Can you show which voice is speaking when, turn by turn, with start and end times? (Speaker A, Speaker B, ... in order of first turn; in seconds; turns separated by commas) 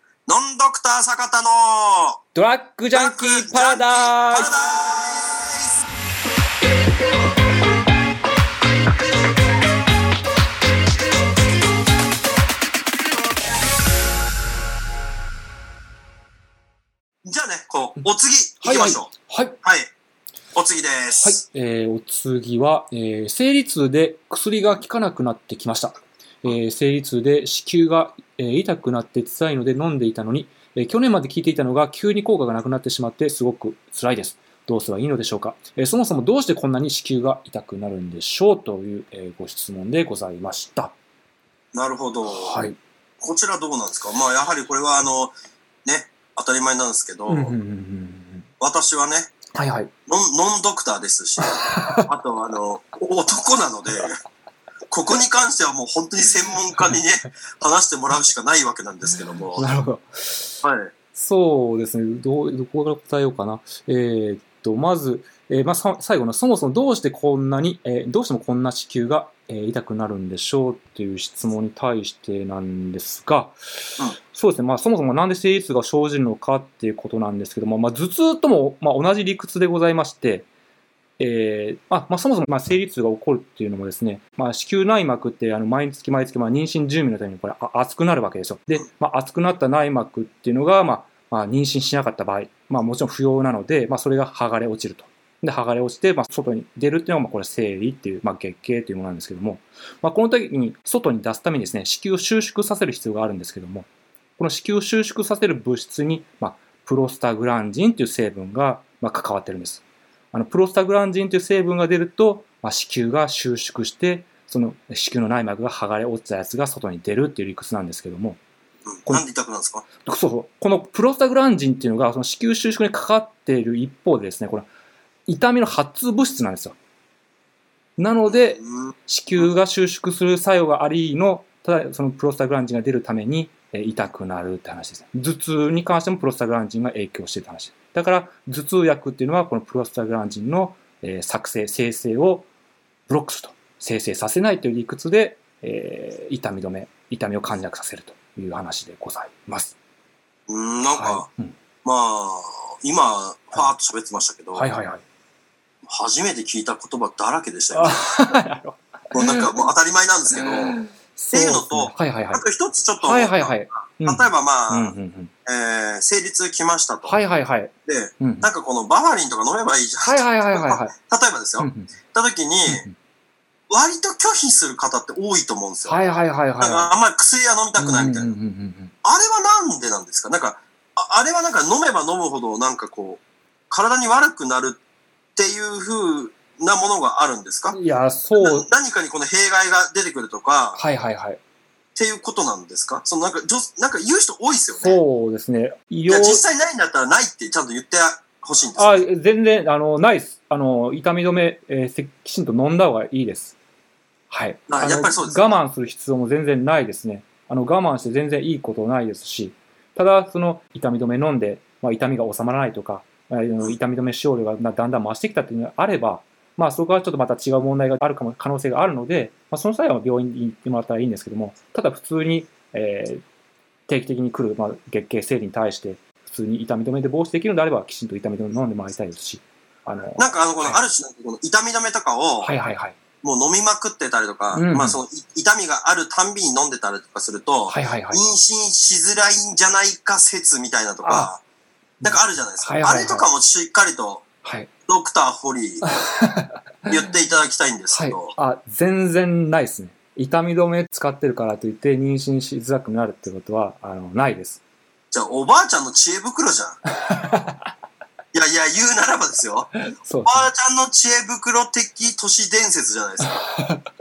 Speaker A: 0.2-2.2, Speaker B: 2.3-4.5, Speaker A: 2.9-5.8, Speaker A: 17.2-19.1, Speaker B: 18.6-19.6, Speaker A: 19.6-19.9, Speaker A: 20.5-21.4, Speaker B: 21.2-40.9, Speaker A: 41.7-42.6, Speaker B: 42.2-42.8, Speaker A: 43.2-45.3, Speaker A: 45.8-47.5, Speaker B: 47.3-48.5, Speaker A: 48.6-49.3, Speaker B: 49.5-49.9, Speaker A: 50.1-54.2, Speaker B: 51.4-52.1, Speaker A: 54.9-59.7, Speaker B: 59.5-60.6, Speaker A: 60.6-60.9, Speaker B: 61.1-80.5, Speaker B: 81.2-118.4, Speaker A: 118.9-119.8, Speaker B: 120.0-124.7, Speaker B: 125.3-126.8, Speaker B: 128.0-142.5, Speaker A: 128.3-129.5, Speaker B: 143.1-149.8, Speaker A: 150.5-151.3, Speaker B: 150.9-151.5, Speaker A: 151.8-154.7, Speaker B: 154.6-155.0, Speaker A: 155.8-158.2, Speaker B: 157.7-159.5, Speaker A: 159.1-160.8, Speaker B: 160.4-162.4, Speaker A: 161.3-164.9, Speaker B: 163.0-165.3, Speaker A: 165.4-167.2, Speaker B: 167.1-168.5, Speaker A: 167.9-172.8, Speaker B: 170.0-170.9, Speaker B: 171.6-171.9, Speaker B: 172.7-172.9, Speaker A: 173.7-176.0, Speaker B: 175.8-176.9, Speaker A: 176.6-178.3, Speaker B: 177.8-178.9, Speaker A: 179.0-184.8, Speaker A: 185.3-187.8, Speaker B: 187.7-188.7, Speaker A: 188.3-190.8, Speaker B: 190.8-191.4, Speaker A: 191.9-195.0, Speaker B: 194.8-196.4, Speaker A: 196.1-199.0, Speaker B: 198.8-203.6, Speaker B: 204.3-223.2, Speaker A: 204.7-205.5, Speaker B: 223.9-230.8, Speaker A: 230.2-232.5, Speaker B: 232.4-232.9, Speaker A: 233.2-241.4, Speaker B: 234.5-235.0, Speaker B: 237.7-238.2, Speaker B: 241.0-241.3, Speaker B: 242.0-243.3, Speaker A: 242.0-244.3, Speaker B: 244.4-244.7, Speaker A: 244.9-245.8, Speaker B: 245.8-246.9, Speaker A: 246.9-248.3, Speaker B: 247.9-254.6, Speaker A: 255.1-256.8, Speaker B: 257.0-257.6, Speaker A: 258.3-259.7, Speaker B: 260.0-260.5, Speaker A: 260.2-263.4, Speaker B: 263.2-263.8